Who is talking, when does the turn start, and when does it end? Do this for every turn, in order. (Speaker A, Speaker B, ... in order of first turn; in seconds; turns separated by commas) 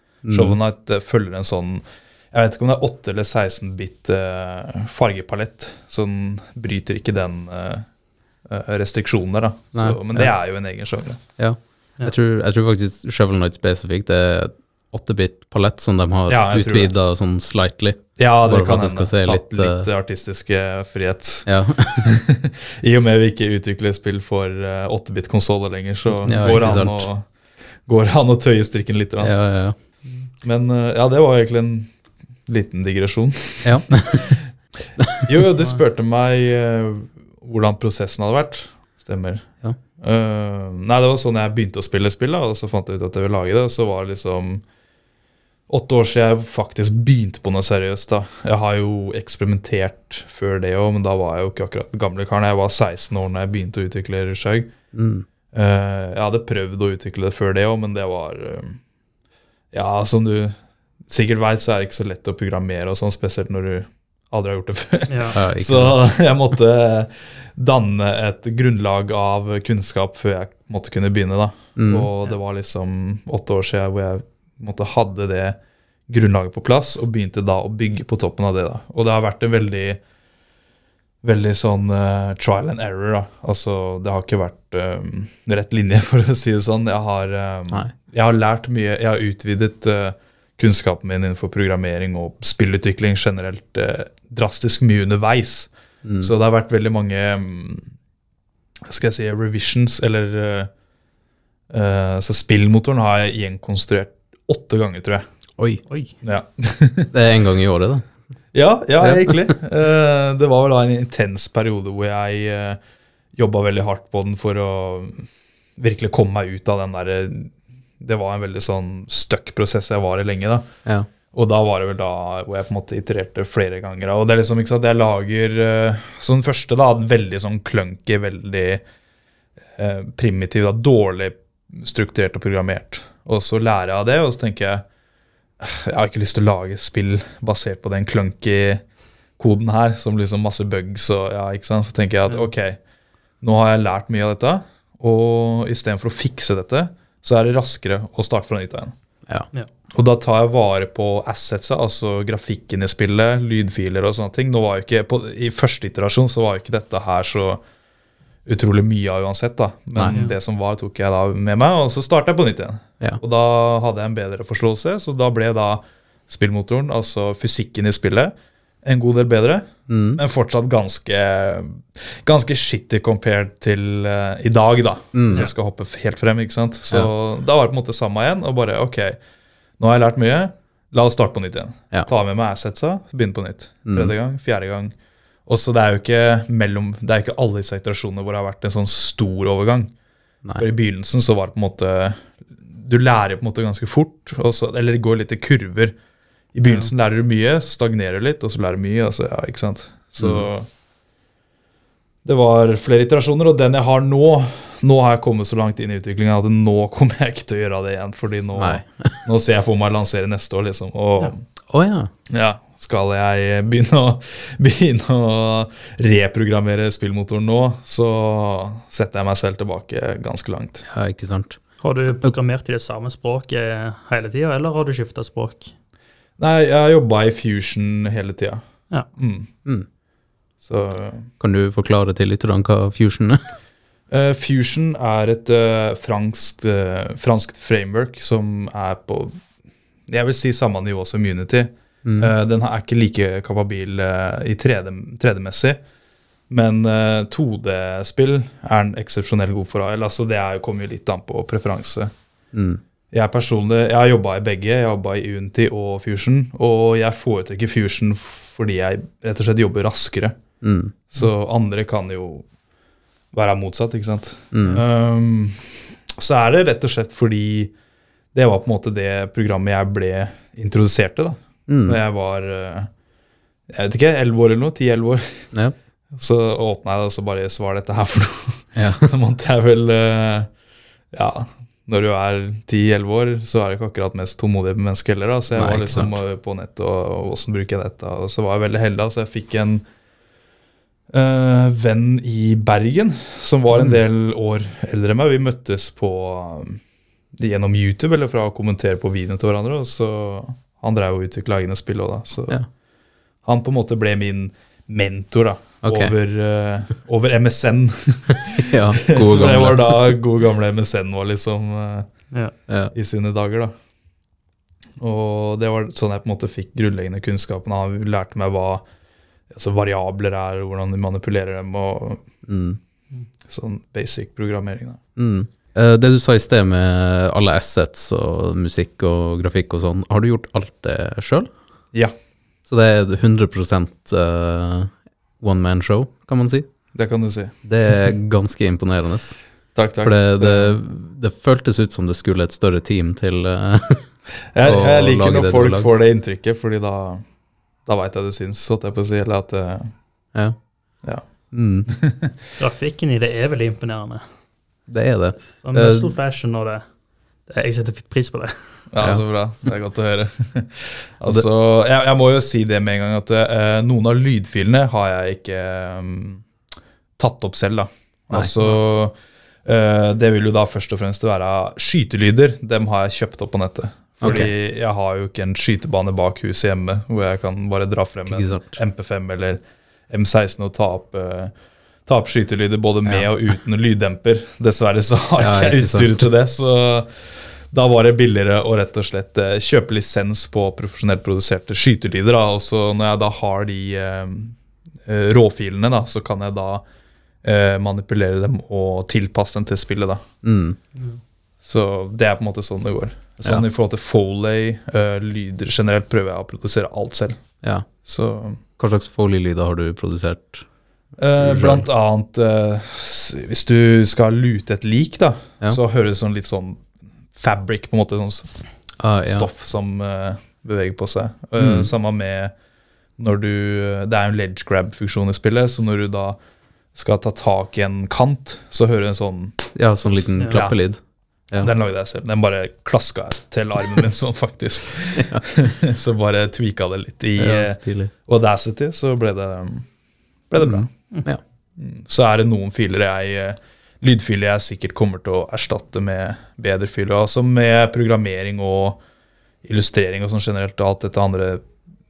Speaker A: 0.2-0.6, Speaker B: 0.3-7.8, Speaker B: 8.4-11.2, Speaker A: 9.7-10.3, Speaker A: 11.4-19.9, Speaker B: 16.3-16.9, Speaker B: 18.2-21.5, Speaker A: 21.5-22.2, Speaker B: 22.0-27.2, Speaker A: 26.2-27.1, Speaker B: 27.9-29.3, Speaker A: 29.2-29.8, Speaker B: 30.4-31.9, Speaker B: 32.5-34.4, Speaker A: 33.6-34.4, Speaker A: 35.0-35.3, Speaker B: 35.2-44.6, Speaker B: 45.7-54.7, Speaker A: 54.9-55.2, Speaker B: 55.5-58.8, Speaker B: 59.7-60.5, Speaker B: 61.1-80.0, Speaker C: 65.1-65.4, Speaker A: 65.3-66.1, Speaker A: 71.8-72.1, Speaker B: 81.2-97.9, Speaker A: 96.0-96.3, Speaker B: 98.8-100.7, Speaker B: 101.7-105.2, Speaker C: 105.9-106.1, Speaker B: 106.2-107.1, Speaker A: 107.1-108.1, Speaker B: 108.5-112.8, Speaker A: 109.0-109.5, Speaker B: 113.3-115.2, Speaker B: 115.8-120.7, Speaker B: 121.3-128.8, Speaker B: 129.8-134.8, Speaker B: 135.6-138.8, Speaker B: 139.4-142.8, Speaker B: 143.4-148.9, Speaker B: 149.9-157.6, Speaker B: 158.4-168.3, Speaker A: 159.9-160.2, Speaker B: 168.8-179.2, Speaker A: 169.9-170.2, Speaker A: 175.1-175.5, Speaker B: 179.8-184.9, Speaker A: 183.8-184.1, Speaker B: 185.4-189.9, Speaker B: 190.6-195.9, Speaker B: 196.5-200.7, Speaker A: 200.2-200.5, Speaker B: 202.2-211.4, Speaker A: 208.5-209.2, Speaker A: 211.7-212.1, Speaker B: 212.3-220.8, Speaker A: 220.9-221.6, Speaker C: 221.8-225.7, Speaker B: 226.4-228.6, Speaker B: 229.2-229.5, Speaker B: 230.6-231.3, Speaker A: 231.4-233.4, Speaker B: 234.1-239.4, Speaker B: 240.1-245.8, Speaker A: 242.0-242.3, Speaker B: 246.5-252.1, Speaker A: 252.5-252.8, Speaker B: 253.1-260.4, Speaker A: 260.6-260.9, Speaker B: 261.1-262.4, Speaker B: 263.3-267.7, Speaker A: 264.5-264.8, Speaker B: 268.3-272.9, Speaker A: 271.7-272.0, Speaker B: 273.7-275.4, Speaker B: 276.1-280.5, Speaker A: 278.8-279.1, Speaker B: 281.1-289.8, Speaker A: 285.5-286.2, Speaker B: 291.1-296.8, Speaker A: 293.7-294.0, Speaker B: 297.4-302.6, Speaker B: 303.4-312.1, Speaker A: 305.8-306.1, Speaker A: 308.6-310.2, Speaker A: 312.7-312.9, Speaker B: 312.9-313.7, Speaker B: 315.0-318.8, Speaker B: 319.5-322.2, Speaker A: 322.5-322.8, Speaker B: 323.5-325.0, Speaker A: 325.2-331.5, Speaker A: 332.6-336.7, Speaker B: 336.9-337.5, Speaker A: 337.6-339.4, Speaker B: 339.7-340.8, Speaker A: 340.0-344.1, Speaker B: 344.5-347.2, Speaker A: 344.6-345.9, Speaker B: 347.9-349.9, Speaker A: 351.5-351.9, Speaker B: 351.9-352.3, Speaker C: 352.6-354.2, Speaker A: 354.9-356.1, Speaker C: 355.6-356.8, Speaker C: 357.5-358.6, Speaker B: 358.9-366.4, Speaker B: 367.2-381.5, Speaker A: 374.2-374.5, Speaker A: 378.3-378.8, Speaker B: 382.1-387.1, Speaker A: 385.4-386.3, Speaker B: 387.7-394.5, Speaker B: 395.1-396.8, Speaker B: 397.4-400.2, Speaker A: 400.4-400.8, Speaker B: 401.6-407.4, Speaker A: 407.6-407.9, Speaker B: 408.0-408.6, Speaker A: 408.8-410.6, Speaker B: 411.2-418.5, Speaker A: 411.4-411.9, Speaker A: 419.0-419.5, Speaker B: 419.2-422.5, Speaker A: 421.6-421.9, Speaker B: 423.2-426.4, Speaker B: 426.9-429.7, Speaker A: 429.7-431.0, Speaker B: 430.4-430.8, Speaker B: 431.6-439.9, Speaker A: 435.2-435.4, Speaker A: 437.4-438.1, Speaker B: 440.5-440.9, Speaker A: 440.6-441.4, Speaker B: 441.8-449.0, Speaker B: 449.6-451.6